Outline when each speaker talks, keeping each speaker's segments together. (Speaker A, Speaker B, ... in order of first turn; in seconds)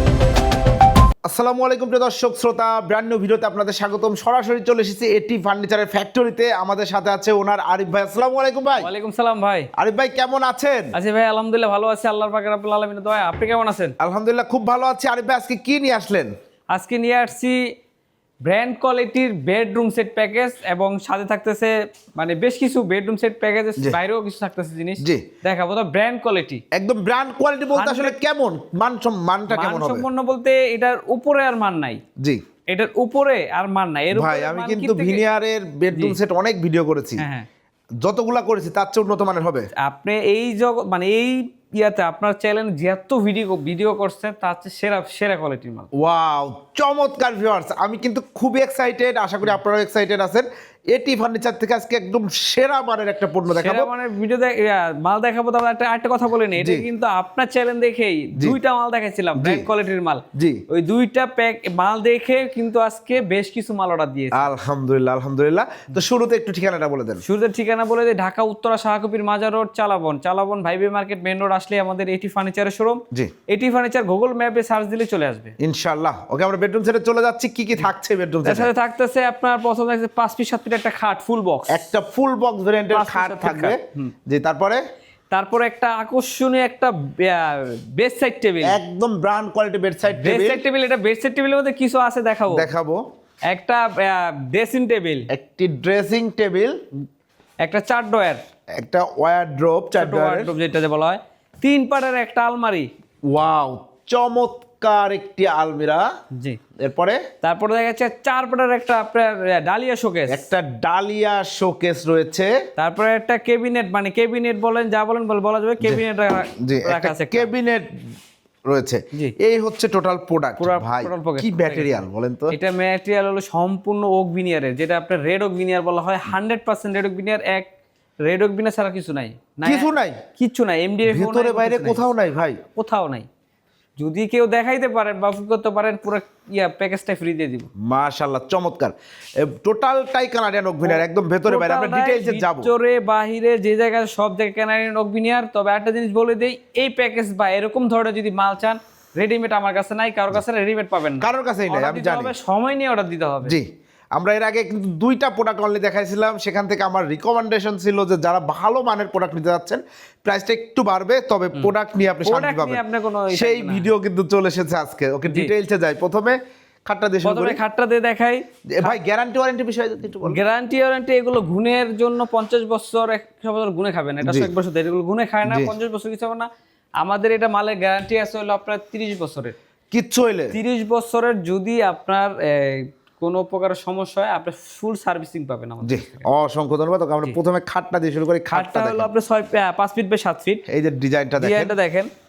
Speaker A: 1.3-8.9, 9.8-10.9, 14.0-16.3, 25.0-25.2, 26.7-30.1, 34.1-37.3, 38.0-39.7, 46.0-53.9, 56.6-56.9, 59.4-59.7, 60.4-60.6, 64.3-67.2, 75.6-78.7, 81.7-84.8, 88.6-90.7, 92.5-93.0, 95.3-96.8, 98.8-100.5, 103.3-106.0, 106.8-107.2, 110.3-112.5, 116.6-117.9, 118.7-122.5, 129.6-130.2, 131.1-132.6, 137.8-142.7, 151.2-152.3, 153.4-167.6, 168.7-170.4, 174.2-174.5, 175.5-175.7, 179.9-180.6, 185.8-189.1, 190.7-191.8
Speaker B: 8.8-9.7, 10.9-13.9, 16.7-17.6, 18.4-26.6, 27.8-28.2, 29.5-32.0, 32.7-35.2, 37.2-37.5, 39.8-45.9, 53.5-64.5, 67.2-75.5, 78.5-81.8, 82.9-84.1, 85.3-88.8, 90.1-92.7, 93.5-95.3, 97.6-98.4, 100.0-102.9, 107.4-110.5, 112.8-117.5, 120.6-127.7, 128.2-132.1, 132.7-133.3, 134.0-137.7, 140.8-153.6, 162.2-163.9, 167.2-169.0, 170.2-176.5, 177.0-179.6, 180.5-186.3, 188.5-190.7, 191.4-192.1